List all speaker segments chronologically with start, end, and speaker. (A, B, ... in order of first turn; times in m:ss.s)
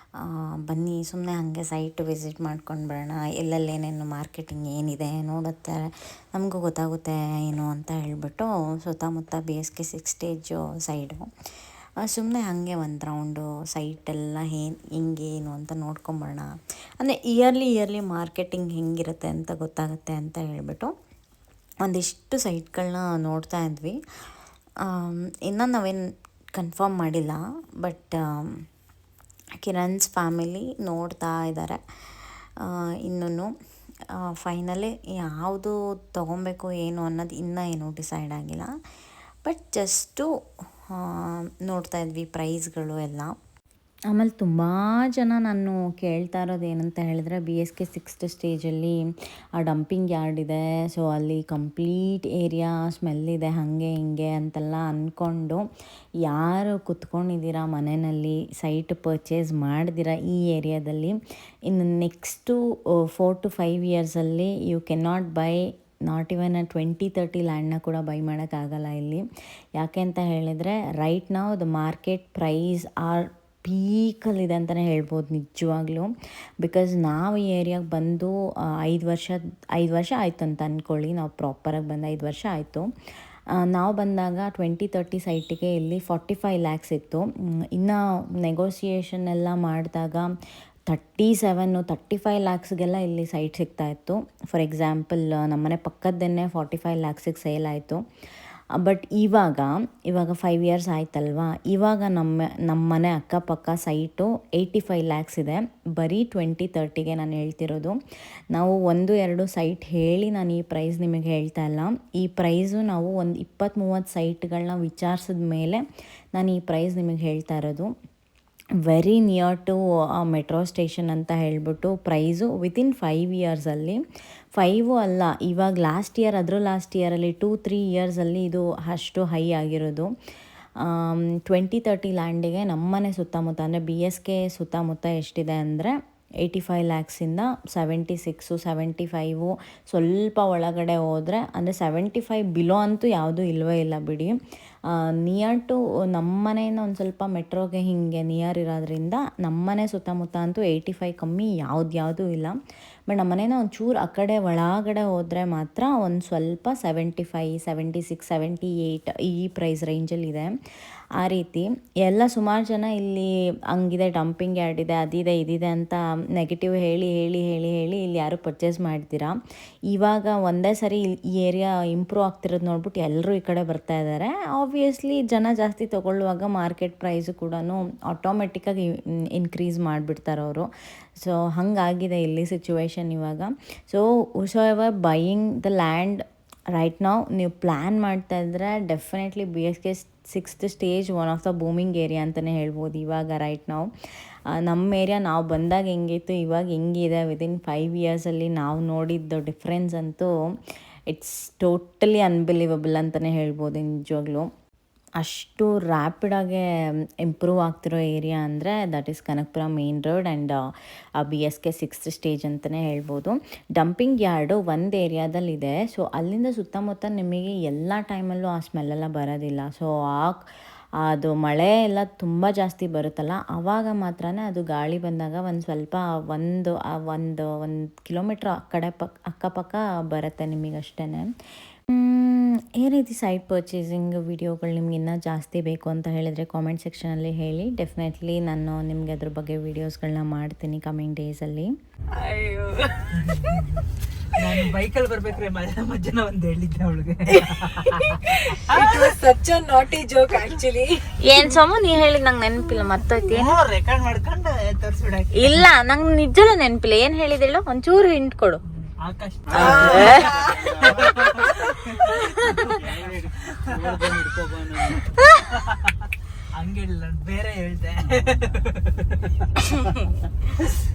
0:00.2-0:05.8 A
0:06.3-0:11.2 A
0:12.0-0:16.5 A
0:17.0-0:20.9 A
0:21.8-0:24.0 A
0:24.9-0:26.0 A
0:26.6-0:28.5 A
0:29.6-0:31.8 A
0:32.6-0:33.5 A
0:34.2-0:38.7 A
0:39.4-0:40.3 A
0:41.0-0:43.3 A
0:44.1-0:49.0 A
0:49.6-0:55.6 A
0:56.2-1:01.2 A
1:01.7-1:09.2 A
1:09.8-1:16.1 A
1:16.6-1:22.8 A
1:23.6-1:30.3 A
1:30.9-1:38.0 A
1:38.8-1:48.0 A
1:48.5-1:55.8 A
1:56.3-1:57.9 A
1:58.9-2:04.0 A
2:04.6-2:10.1 A
2:10.8-2:24.3 A
2:24.9-2:32.6 A
2:33.1-2:40.5 A
2:41.2-2:49.4 A
2:49.9-3:00.7 A
3:01.2-3:13.9 A
3:14.5-3:20.3 A
3:21.1-3:24.5 A
3:25.2-3:26.6 A
3:27.2-3:30.6 A
3:31.2-3:40.4 A
3:41.0-3:51.3 A
3:51.9-4:01.7 A
4:02.1-4:03.1 B
4:03.1-4:03.8 C
4:04.4-4:08.2 C
4:08.2-4:11.0 B
4:08.7-4:09.1 C
4:11.2-4:13.6 D
4:13.2-4:15.6 C
4:15.4-4:18.6 D
4:18.7-4:25.9 C
4:19.5-4:20.3 D
4:26.6-4:29.4 C